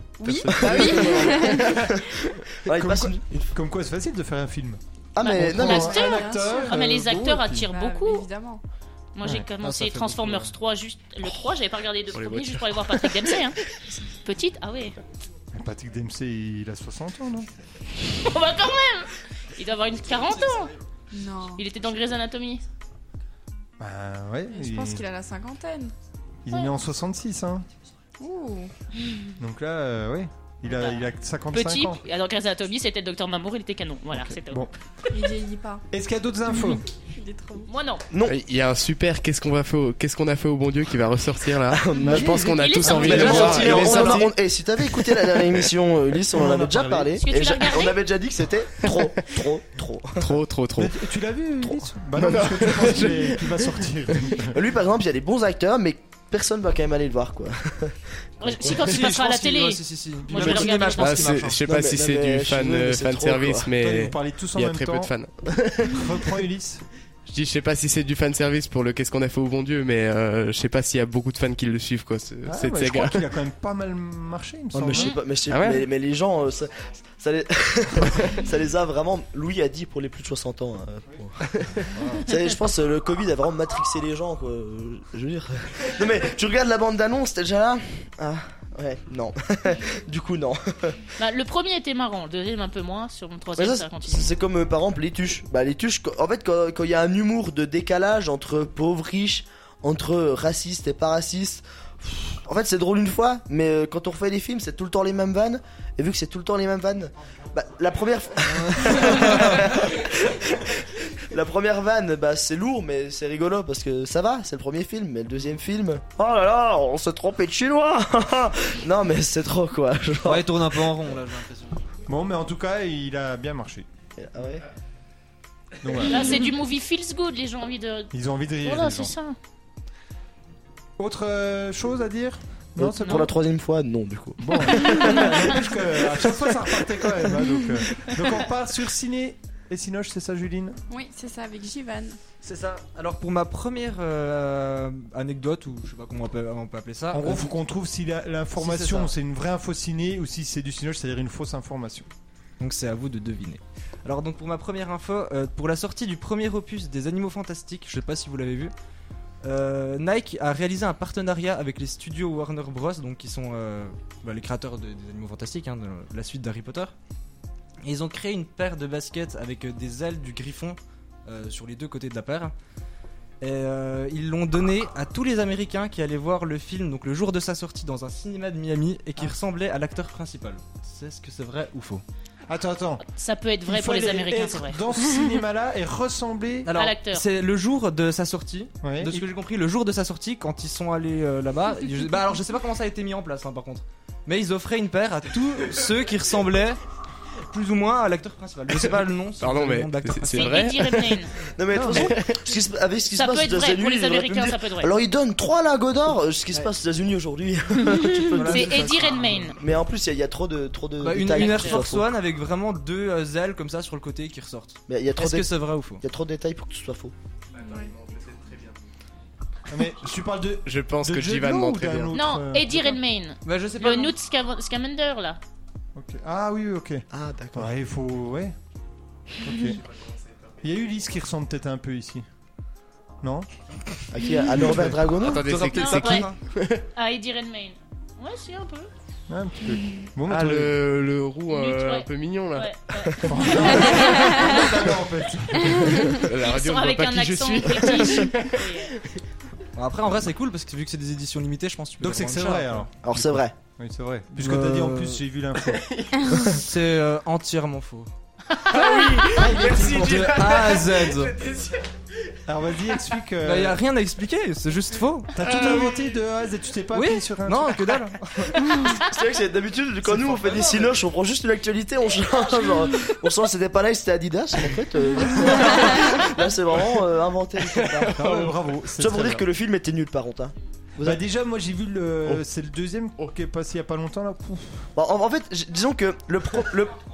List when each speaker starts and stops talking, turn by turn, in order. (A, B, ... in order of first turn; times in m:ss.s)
0:00.2-0:01.8 A
0:00.2-0:01.2 B
0:00.4-0:03.6 C
0:02.6-0:07.7 D
0:05.1-0:06.0 C
0:05.2-0:08.3 E
0:05.9-0:06.7 A
0:07.6-0:08.6 A
0:09.1-0:15.0 E
0:09.6-0:10.5 F
0:12.1-0:13.0 B
0:15.5-0:17.5 D
0:18.1-0:20.7 E
0:21.1-0:21.6 A
0:21.6-0:22.6 E
0:23.8-0:25.0 D
0:24.5-0:25.9 A
0:26.4-0:27.7 D
0:28.2-0:28.7 A
0:29.4-0:32.0 D
0:30.6-0:34.7 E
0:34.1-0:34.7 D
0:35.1-0:35.8 A
0:35.9-0:36.8 D
0:37.1-0:37.7 A
0:37.7-0:38.0 E
0:38.1-0:38.4 C
0:38.2-0:44.3 B
0:41.7-0:50.4 C
0:42.0-0:44.1 D
0:42.5-0:43.7 E
0:43.0-0:44.2 F
0:46.3-0:47.1 D
0:47.2-0:48.0 E
0:50.2-0:50.9 B
0:50.8-0:54.6 D
0:51.6-0:53.6 C
0:54.3-0:58.9 C
0:58.4-1:01.3 E
0:58.6-1:01.6 F
1:00.4-1:05.3 B
1:01.6-1:03.7 C
1:03.8-1:05.1 D
1:05.4-1:06.1 C
1:05.8-1:06.8 D
1:07.3-1:13.2 B
1:12.4-1:15.1 D
1:14.7-1:31.0 C
1:14.9-1:15.2 E
1:15.5-1:15.8 B
1:22.0-1:22.2 F
1:31.2-1:34.3 E
1:33.6-2:01.0 C
1:48.6-1:49.6 F
2:00.2-2:01.8 F
2:02.1-2:03.8 D
2:04.2-2:04.7 C
2:05.8-2:06.4 D
2:06.0-2:09.4 E
2:08.1-2:09.1 D
2:11.0-2:13.3 D
2:12.8-2:15.6 C
2:14.4-2:20.8 D
2:20.9-2:22.2 A
2:22.4-2:27.5 F
2:27.1-2:32.1 D
2:28.6-2:29.1 F
2:32.6-2:38.7 F
2:39.4-2:46.9 F
2:47.8-2:52.5 F
2:53.4-3:02.0 F
3:02.5-3:03.0 D
3:03.0-3:04.8 E
3:03.6-3:06.7 D
3:06.6-3:16.8 F
3:06.7-3:07.2 E
3:08.8-3:09.2 D
3:17.4-3:20.8 F
3:19.4-3:21.2 B
3:20.3-3:21.4 E
3:21.5-3:28.9 C
3:21.7-3:22.2 D
3:23.1-3:24.9 E
3:28.1-3:29.6 E
3:28.2-3:29.5 F
3:29.6-3:32.1 C
3:31.0-3:36.0 F
3:31.3-3:31.8 E
3:34.9-3:37.1 C
3:37.6-3:37.9 A
3:37.7-3:38.7 B
3:39.7-3:43.0 D
3:40.6-3:42.1 B
3:42.1-3:45.4 E
3:43.4-3:44.1 F
3:45.9-3:48.5 D
3:47.1-3:47.7 C
3:49.4-3:49.8 D
3:50.6-3:52.2 D
3:53.2-3:53.5 D
3:54.1-3:55.5 C
3:54.6-3:55.0 D
3:55.2-3:56.8 B
3:55.4-3:56.4 F
3:55.7-3:56.3 E
3:56.9-3:58.9 E
3:59.3-4:00.7 D
4:00.3-4:02.7 B
4:01.5-4:04.7 E
4:03.2-4:06.2 D
4:05.7-4:09.0 E
4:06.1-4:09.1 B
4:09.8-4:12.9 F
4:12.0-4:15.9 D
4:13.0-4:13.5 C
4:14.4-4:15.2 F
4:16.4-4:18.1 F
4:18.7-4:21.8 B
4:19.2-4:20.7 D
4:19.8-4:21.4 F
4:22.5-4:23.8 D
4:23.4-4:25.3 F
4:25.3-4:28.0 D
4:25.4-4:26.1 B
4:26.9-4:28.6 F
4:28.8-4:29.1 E
4:28.8-4:38.3 C
4:37.8-4:38.5 B
4:38.1-4:39.4 D
4:39.0-4:41.2 C
4:41.0-4:44.9 D
4:44.9-4:47.0 C